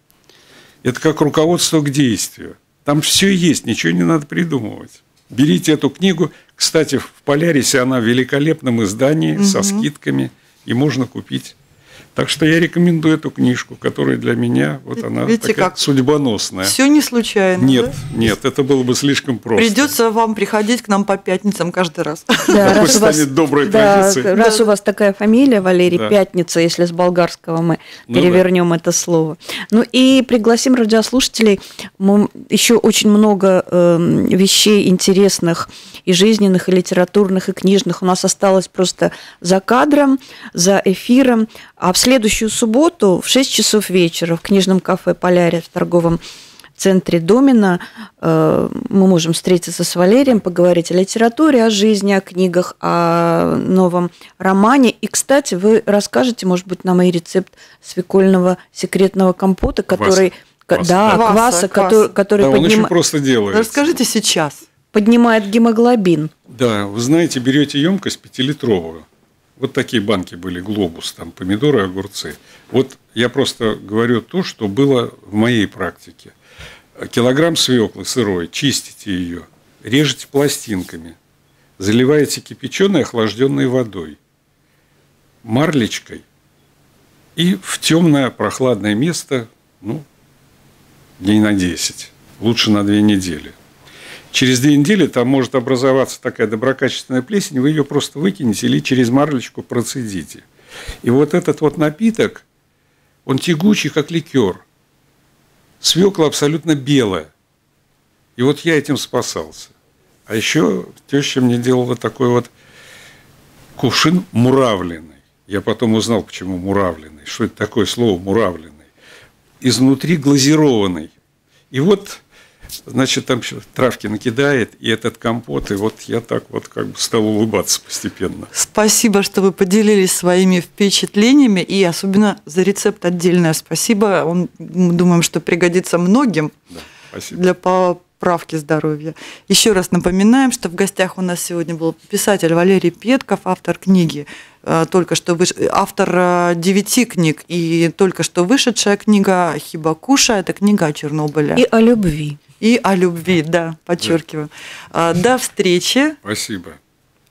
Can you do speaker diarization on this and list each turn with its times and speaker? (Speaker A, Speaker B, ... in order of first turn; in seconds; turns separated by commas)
Speaker A: 0.8-11.6, Speaker B: 9.4-9.9, Speaker A: 12.2-16.8, Speaker B: 15.2-15.8, Speaker B: 16.6-18.1, Speaker A: 17.6-19.9, Speaker B: 19.6-23.0, Speaker C: 22.5-46.2, Speaker A: 22.5-24.3, Speaker B: 24.3-24.7, Speaker A: 25.9-26.2, Speaker A: 28.1-28.4, Speaker C: 46.8-62.9, Speaker A: 59.9-61.3, Speaker B: 61.1-62.1, Speaker A: 62.4-64.0, Speaker B: 63.5-64.6, Speaker C: 64.9-66.3, Speaker A: 66.5-69.1, Speaker A: 69.6-76.3, Speaker A: 77.0-81.2, Speaker A: 81.8-84.2, Speaker A: 85.4-86.2, Speaker A: 87.4-90.1, Speaker A: 91.2-93.6, Speaker A: 94.3-100.5, Speaker A: 101.0-102.5, Speaker A: 103.3-104.6, Speaker A: 105.8-107.3, Speaker A: 108.4-109.7, Speaker A: 110.3-112.5, Speaker A: 113.8-118.8, Speaker A: 119.6-121.1, Speaker A: 121.7-122.2, Speaker A: 122.9-128.5, Speaker B: 128.5-136.6, Speaker A: 136.7-137.4, Speaker B: 137.3-151.6, Speaker C: 151.6-152.4, Speaker B: 152.6-156.2, Speaker A: 156.2-156.8